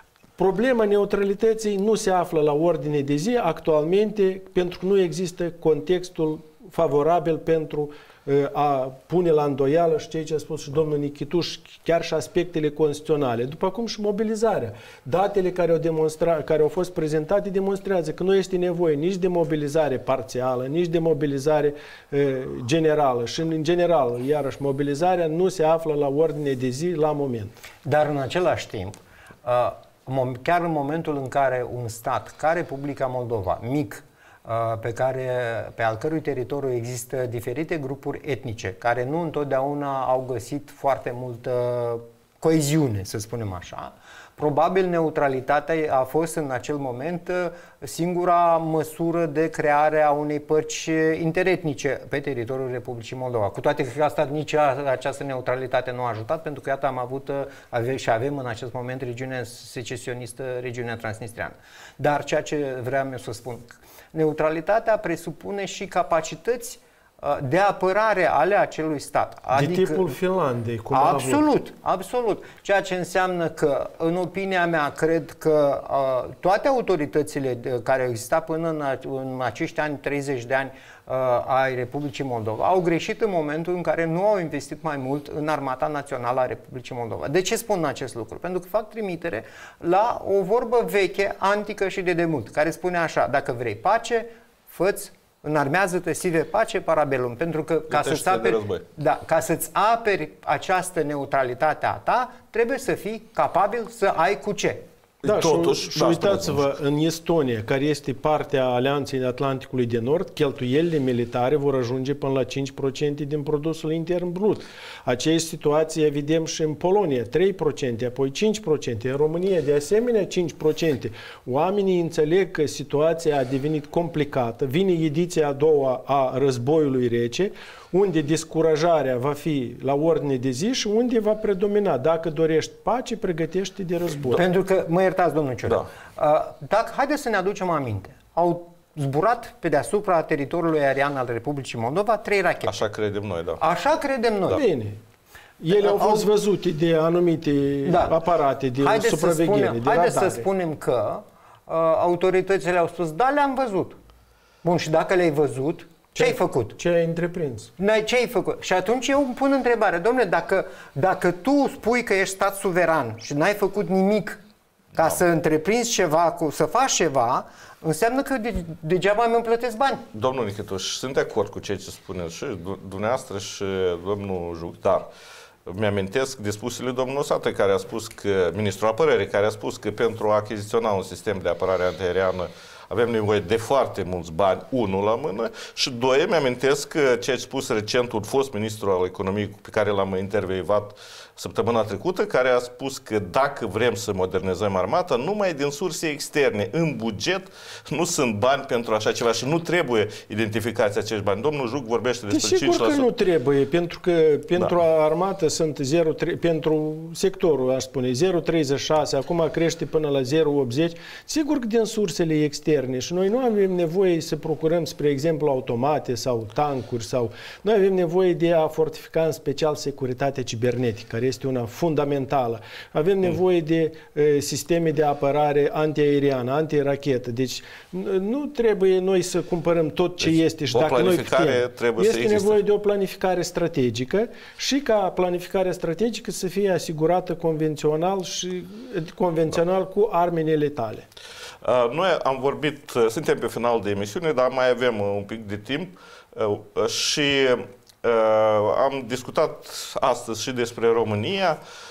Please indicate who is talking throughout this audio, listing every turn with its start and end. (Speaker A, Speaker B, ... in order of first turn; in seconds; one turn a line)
Speaker A: 0.4-27.6
Speaker B: 27.8-70.1
Speaker A: 69.5-71.4
Speaker B: 70.9-104.8
Speaker C: 97.9-98.8
Speaker C: 105.2-106.7
Speaker A: 105.2-134.4
Speaker B: 134.3-142.8
Speaker C: 142.6-143.6
Speaker B: 143.6-144.6
Speaker A: 144.5-145.0
Speaker A: 145.6-150.5
Speaker B: 145.8-146.3
Speaker B: 147.8-148.2
Speaker B: 148.8-154.0
Speaker B: 154.6-156.8
Speaker A: 156.1-157.7
Speaker B: 157.8-164.4
Speaker B: 164.9-170.1
Speaker C: 170.1-175.1
Speaker C: 175.7-203.1
Speaker A: 202.3-241.1
Speaker C: 230.2-232.6
Speaker C: 241.6-251.6